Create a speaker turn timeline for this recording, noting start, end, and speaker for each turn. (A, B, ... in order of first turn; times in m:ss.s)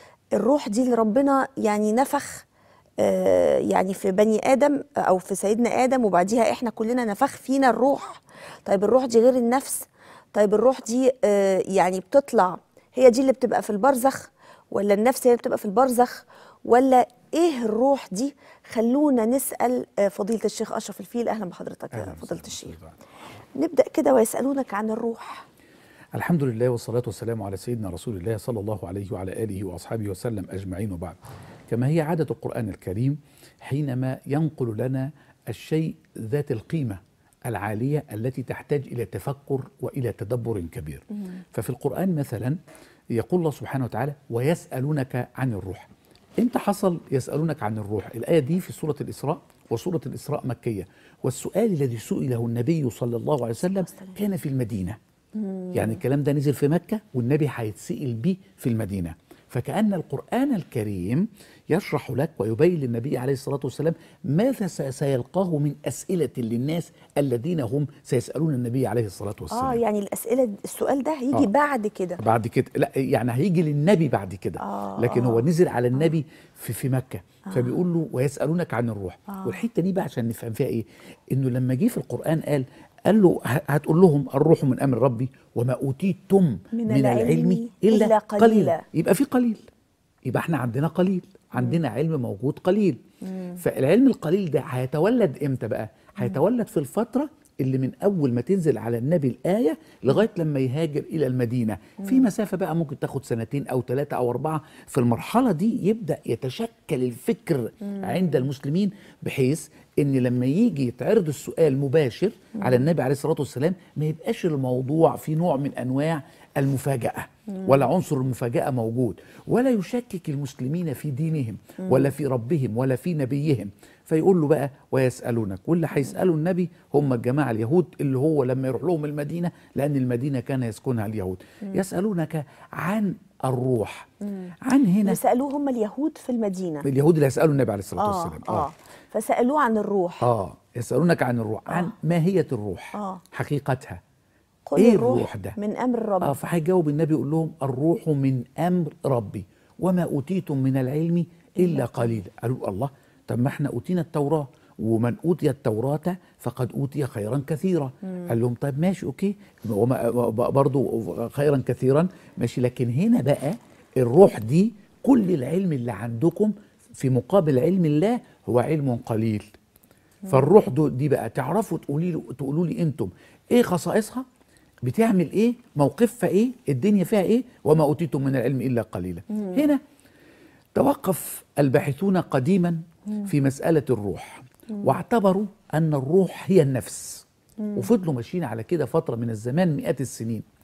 0:00.4-0:02.4 A
0:03.0-0:22.8 A
0:21.9-0:23.0 B
0:23.6-0:25.4 A
0:26.1-0:31.2 B
0:31.7-0:42.6 B
0:43.1-0:55.0 B
0:53.9-0:54.2 A
0:55.4-0:56.0 A
0:55.7-1:09.8 B
1:09.5-1:12.2 A
1:12.2-1:29.6 B
1:14.6-1:15.5 A
1:17.5-1:17.8 A
1:19.3-1:19.6 A
1:26.7-1:28.8 A
1:30.2-1:33.0 B
1:33.3-1:33.6 A
1:33.6-2:14.1 B
2:14.7-2:15.2 B
2:15.0-2:16.8 A
2:16.8-2:18.7 B
2:18.0-2:20.3 A
2:20.2-2:24.0 B
2:22.9-2:23.2 A
2:24.7-2:26.3 A
2:24.8-2:25.6 B
2:26.2-2:49.5 B
2:31.6-2:32.1 A
2:50.3-2:54.2 B
2:54.8-2:59.8 B
2:59.3-2:59.7 A
3:00.8-3:10.5 B